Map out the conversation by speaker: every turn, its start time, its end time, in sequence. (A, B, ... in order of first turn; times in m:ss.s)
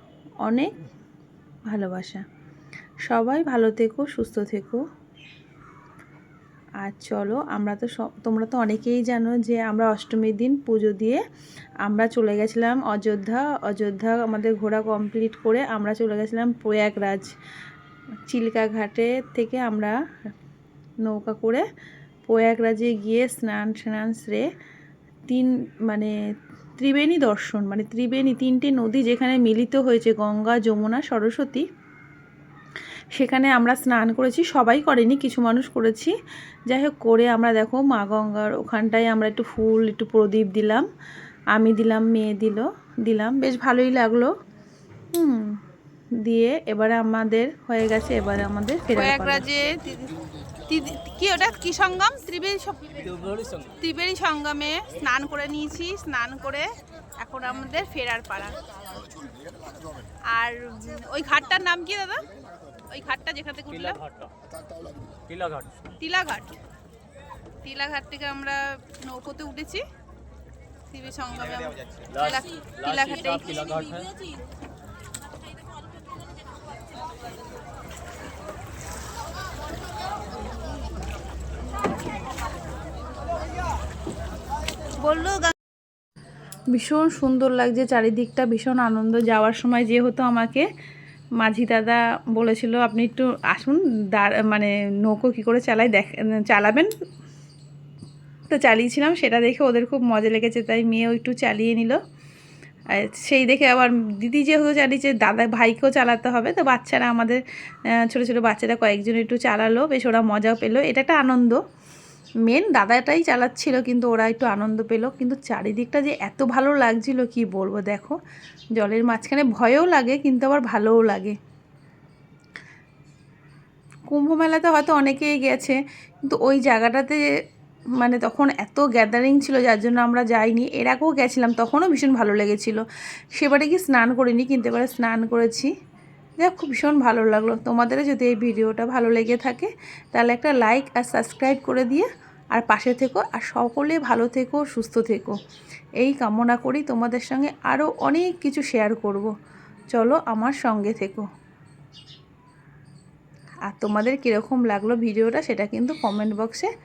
0:00.4-0:00.7 A
0:01.7-0:02.2 A
0:03.1-0:04.8 A
0:06.8-0:11.2 A
0:11.8-0:17.3 A
0:18.3-0:20.0 A
0:21.0-0:21.7 A
0:22.3-0:24.5 A
0:25.3-0:26.1 A
0:26.8-0:31.6 A
0:33.1-0:36.1 A
0:36.7-0:40.9 A
0:41.5-0:44.3 A
0:45.1-0:45.6 A
0:46.2-0:49.4 A
0:48.9-0:53.3 B
0:53.0-0:53.8 C
0:53.8-0:58.6 B
1:00.3-1:02.3 B
1:02.9-1:04.0 B
1:03.7-1:04.3 C
1:05.3-1:05.7 C
1:06.0-1:06.6 B
1:07.6-1:09.8 B
1:10.9-1:13.9 B
1:12.1-1:14.1 C
1:25.0-1:25.5 B
1:26.7-1:30.7 A
1:31.4-1:36.9 A
1:38.5-1:42.0 A
1:42.9-1:47.4 A
1:47.9-1:51.6 A
1:52.4-1:58.2 A
1:58.8-2:01.4 A
2:04.1-2:07.2 A
2:08.0-2:15.7 A
2:16.4-2:25.4 A
2:26.0-2:29.3 A
2:29.9-2:31.3 A
2:33.7-2:36.7 A